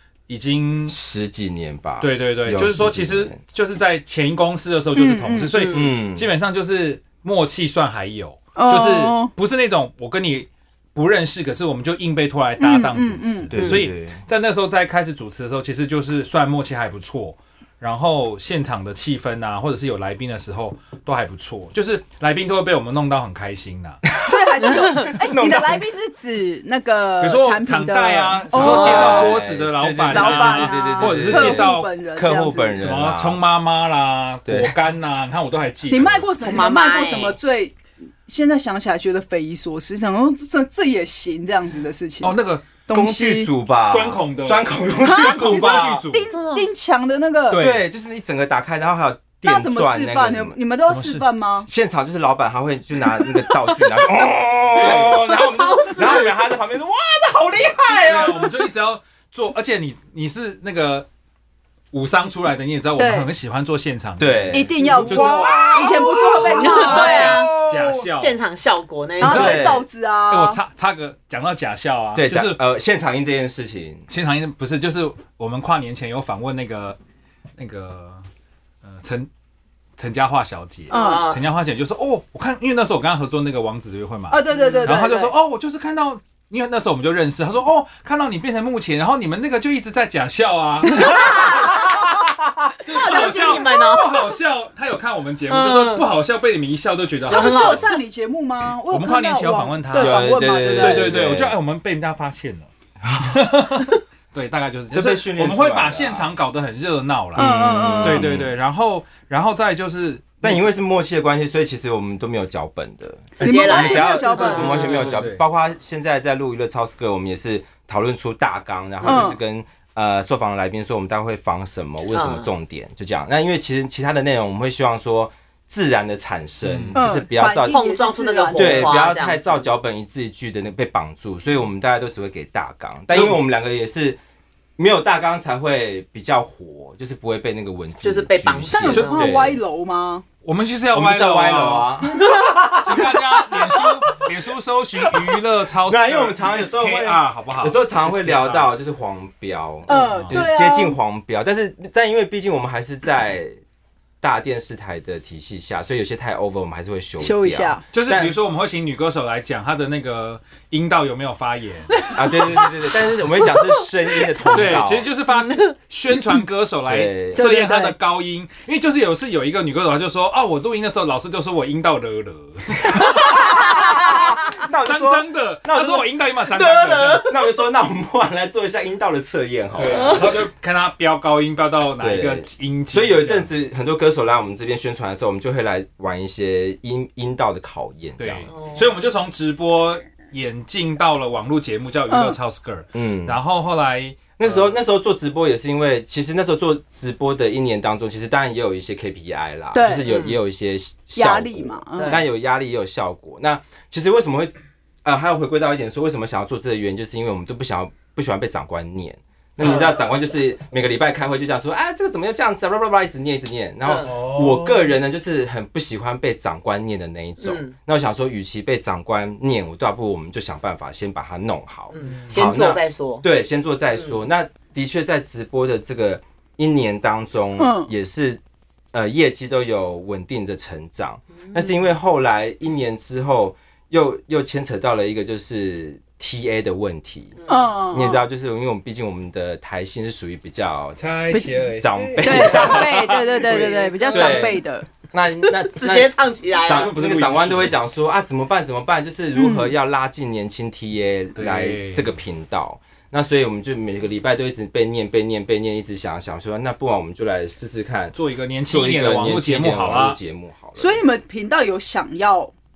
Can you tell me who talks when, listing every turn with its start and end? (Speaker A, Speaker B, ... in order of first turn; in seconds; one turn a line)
Speaker A: 0.3-1.0
Speaker B: 0.9-3.4
Speaker A: 2.0-24.0
Speaker C: 4.9-5.5
Speaker D: 5.5-5.9
Speaker B: 5.7-6.3
Speaker C: 8.6-9.3
Speaker C: 12.6-13.5
Speaker B: 13.5-14.2
Speaker D: 13.6-13.8
Speaker B: 24.1-25.9
Speaker C: 24.2-29.3
Speaker D: 24.7-25.1
Speaker A: 27.2-31.9
Speaker B: 28.5-33.4
Speaker D: 28.6-29.3
Speaker C: 30.1-32.8
Speaker A: 32.8-36.3
Speaker B: 34.5-34.7
Speaker C: 35.9-43.5
Speaker D: 36.4-37.4
Speaker A: 42.2-42.7
Speaker B: 42.9-46.0
Speaker A: 43.9-46.3
Speaker C: 45.0-47.7
Speaker D: 46.3-46.7
Speaker A: 47.5-47.8
Speaker B: 47.6-50.6
Speaker C: 49.4-51.7
Speaker A: 50.9-51.3
Speaker B: 51.7-58.7
Speaker D: 54.8-56.3
Speaker A: 57.9-61.1
Speaker A: 61.9-65.7
Speaker C: 63.0-63.3
Speaker B: 64.2-68.0
Speaker C: 64.5-67.2
Speaker D: 66.4-67.5
Speaker A: 66.7-68.4
Speaker D: 68.1-69.7
Speaker C: 69.2-70.6
Speaker B: 69.2-69.8
Speaker A: 70.3-72.6
Speaker B: 72.2-74.1
Speaker A: 74.1-77.0
Speaker A: 77.6-78.2
Speaker A: 78.8-79.3
Speaker A: 80.0-91.8
Speaker D: 80.9-81.4
Speaker C: 80.9-81.3
Speaker C: 84.3-85.3
Speaker D: 84.5-85.0
Speaker D: 91.0-91.8
Speaker A: 92.8-97.9
Speaker D: 92.9-94.3
Speaker D: 95.5-96.1
Speaker D: 97.3-98.0
Speaker C: 97.3-101.1
Speaker A: 98.9-110.6
Speaker B: 99.9-101.5
Speaker B: 103.0-103.4
Speaker B: 104.9-106.3
Speaker B: 107.3-108.5
Speaker C: 107.4-108.3
Speaker B: 110.4-127.8
Speaker D: 113.4-115.1
Speaker C: 113.4-115.0
Speaker A: 114.6-115.4
Speaker D: 119.0-119.3
Speaker C: 119.0-119.4
Speaker D: 122.1-122.5
Speaker A: 126.7-127.0
Speaker C: 127.0-129.1
Speaker D: 127.6-129.6
Speaker B: 128.6-134.2
Speaker A: 133.1-133.4
Speaker B: 134.8-139.6
Speaker D: 138.0-139.3
Speaker C: 138.7-140.2
Speaker A: 138.9-139.5
Speaker A: 140.4-141.9
Speaker B: 140.9-143.2
Speaker A: 142.8-148.7
Speaker B: 145.9-153.6
Speaker C: 149.9-151.0
Speaker A: 149.9-150.5
Speaker B: 154.2-158.4
Speaker C: 157.2-157.8
Speaker A: 157.9-162.0
Speaker C: 162.0-162.8
Speaker B: 162.1-165.1
Speaker C: 163.4-164.4
Speaker A: 164.5-173.5
Speaker D: 165.3-165.7
Speaker B: 166.9-167.4
Speaker C: 167.3-168.0
Speaker B: 173.5-176.1
Speaker A: 174.8-177.3
Speaker D: 176.5-177.2
Speaker B: 177.0-180.4
Speaker A: 179.8-183.5
Speaker D: 179.8-180.3
Speaker B: 182.0-188.5
Speaker A: 188.2-194.8
Speaker D: 188.5-188.9
Speaker C: 192.1-192.4
Speaker B: 192.9-193.4
Speaker B: 194.4-228.4
Speaker C: 199.7-200.1
Speaker D: 200.1-200.4
Speaker C: 201.2-202.2
Speaker D: 202.0-202.2
Speaker D: 213.8-214.1
Speaker A: 214.0-214.9
Speaker D: 217.4-217.7
Speaker D: 221.9-223.2
Speaker A: 222.0-222.4
Speaker C: 227.6-227.9
Speaker B: 228.9-237.4
Speaker D: 237.4-238.0
Speaker C: 237.5-238.2
Speaker B: 237.9-258.2
Speaker A: 241.0-242.9
Speaker C: 242.2-244.9
Speaker D: 244.1-244.4
Speaker D: 245.4-246.9
Speaker A: 246.7-247.8
Speaker C: 249.3-249.7
Speaker A: 251.3-252.1
Speaker A: 258.1-260.2
Speaker B: 258.7-261.0
Speaker C: 260.8-262.5